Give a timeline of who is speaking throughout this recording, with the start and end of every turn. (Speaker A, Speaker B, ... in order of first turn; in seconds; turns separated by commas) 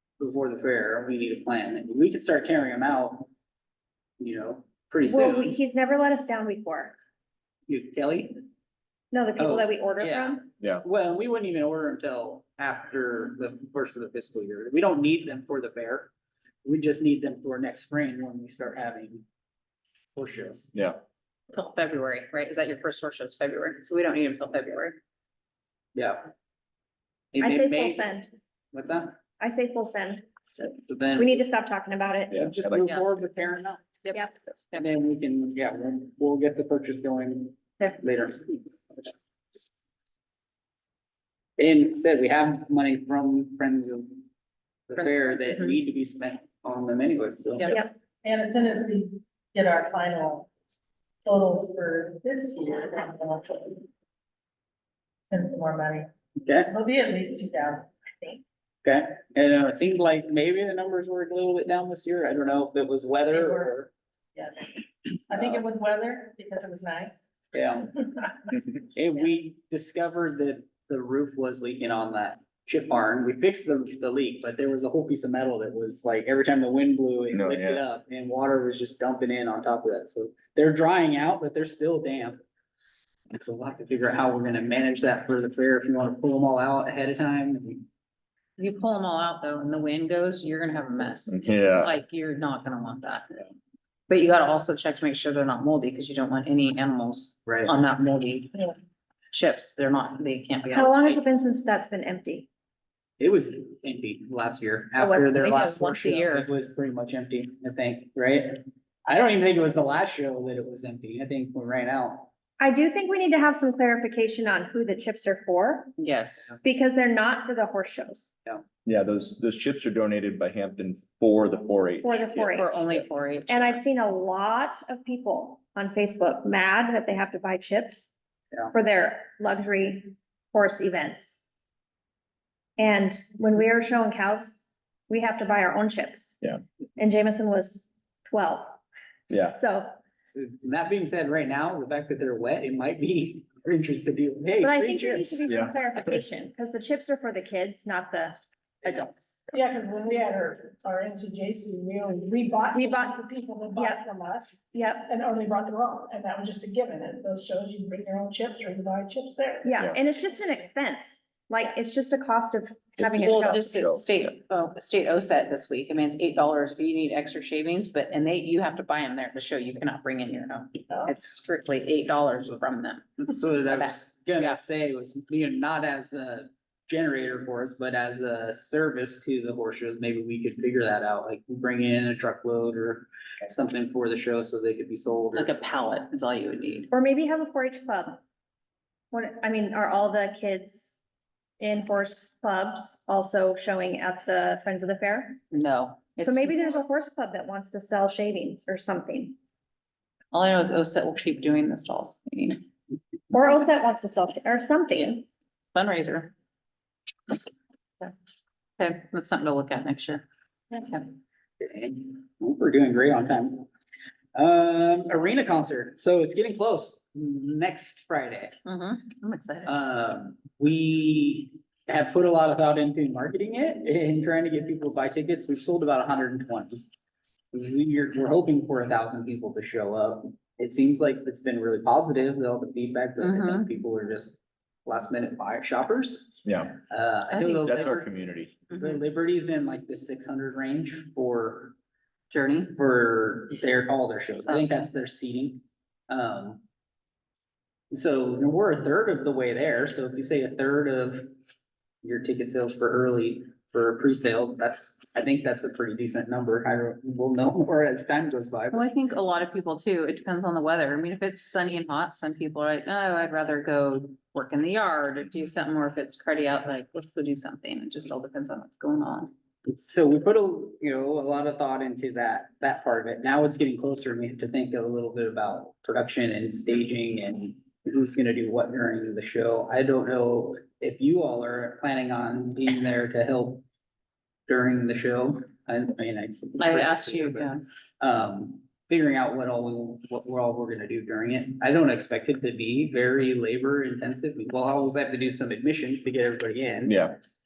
Speaker A: 0.2-3.3, Speaker A: 4.2-5.5, Speaker B: 5.0-6.9, Speaker A: 7.7-8.5, Speaker B: 9.1-10.4, Speaker A: 9.4-16.1, Speaker A: 16.6-19.2, Speaker A: 20.1-20.7, Speaker C: 20.7-21.0, Speaker D: 21.5-25.0, Speaker A: 25.9-26.3, Speaker A: 27.3-28.1, Speaker B: 27.4-28.3, Speaker A: 28.7-29.2, Speaker B: 29.4-32.3, Speaker A: 30.8-31.4, Speaker C: 32.3-33.1, Speaker A: 32.3-34.0, Speaker D: 34.0-34.8, Speaker A: 34.7-39.1, Speaker A: 41.6-44.2, Speaker A: 44.9-47.8, Speaker E: 48.2-50.5, Speaker E: 51.2-53.8, Speaker E: 55.3-56.0, Speaker A: 56.4-56.7, Speaker E: 56.7-58.4, Speaker A: 58.8-63.9, Speaker E: 63.4-63.7, Speaker E: 65.3-67.2, Speaker A: 65.3-65.6, Speaker A: 67.5-68.0, Speaker A: 68.7-82.4, Speaker C: 77.3-77.8, Speaker A: 83.3-87.8, Speaker D: 88.6-93.4, Speaker C: 91.3-91.9, Speaker D: 94.1-98.7, Speaker A: 97.5-97.7, Speaker D: 99.3-101.2, Speaker B: 100.7-102.5, Speaker A: 103.2-112.3, Speaker D: 105.0-106.5, Speaker B: 112.6-115.9, Speaker D: 116.0-116.5, Speaker B: 116.6-118.3, Speaker C: 118.8-122.6, Speaker B: 122.0-122.9, Speaker D: 122.5-123.8, Speaker B: 123.5-128.1, Speaker B: 128.7-131.4, Speaker B: 132.8-136.4, Speaker B: 137.0-138.8, Speaker C: 139.3-139.5, Speaker B: 139.5-140.0, Speaker A: 140.2-145.6, Speaker B: 144.6-149.4, Speaker C: 145.5-145.7, Speaker E: 149.5-159.7, Speaker B: 152.7-153.2, Speaker B: 153.7-154.0, Speaker B: 154.7-155.1, Speaker B: 159.6-163.8, Speaker C: 163.0-164.0, Speaker D: 163.2-174.6, Speaker A: 173.2-185.5, Speaker D: 185.3-186.9, Speaker B: 186.9-188.2, Speaker B: 189.1-190.9, Speaker B: 191.6-195.4, Speaker D: 195.5-196.7, Speaker B: 196.2-199.3, Speaker D: 200.3-202.6, Speaker B: 203.3-205.2, Speaker D: 204.9-205.2, Speaker D: 205.7-206.3, Speaker D: 208.8-211.1, Speaker A: 211.6-213.7, Speaker A: 214.3-218.6, Speaker D: 218.6-219.7, Speaker A: 219.7-226.8, Speaker A: 227.5-238.1, Speaker D: 233.2-233.7, Speaker C: 236.4-236.8, Speaker D: 237.3-237.9, Speaker C: 237.6-238.5, Speaker D: 238.7-239.0, Speaker A: 238.8-241.8, Speaker D: 242.3-242.7, Speaker A: 242.7-246.6, Speaker D: 244.5-244.7, Speaker A: 247.9-251.3, Speaker A: 252.0-258.8, Speaker D: 258.7-269.3, Speaker A: 269.6-283.6, Speaker A: 284.5-297.1, Speaker D: 286.6-287.6, Speaker C: 296.9-297.1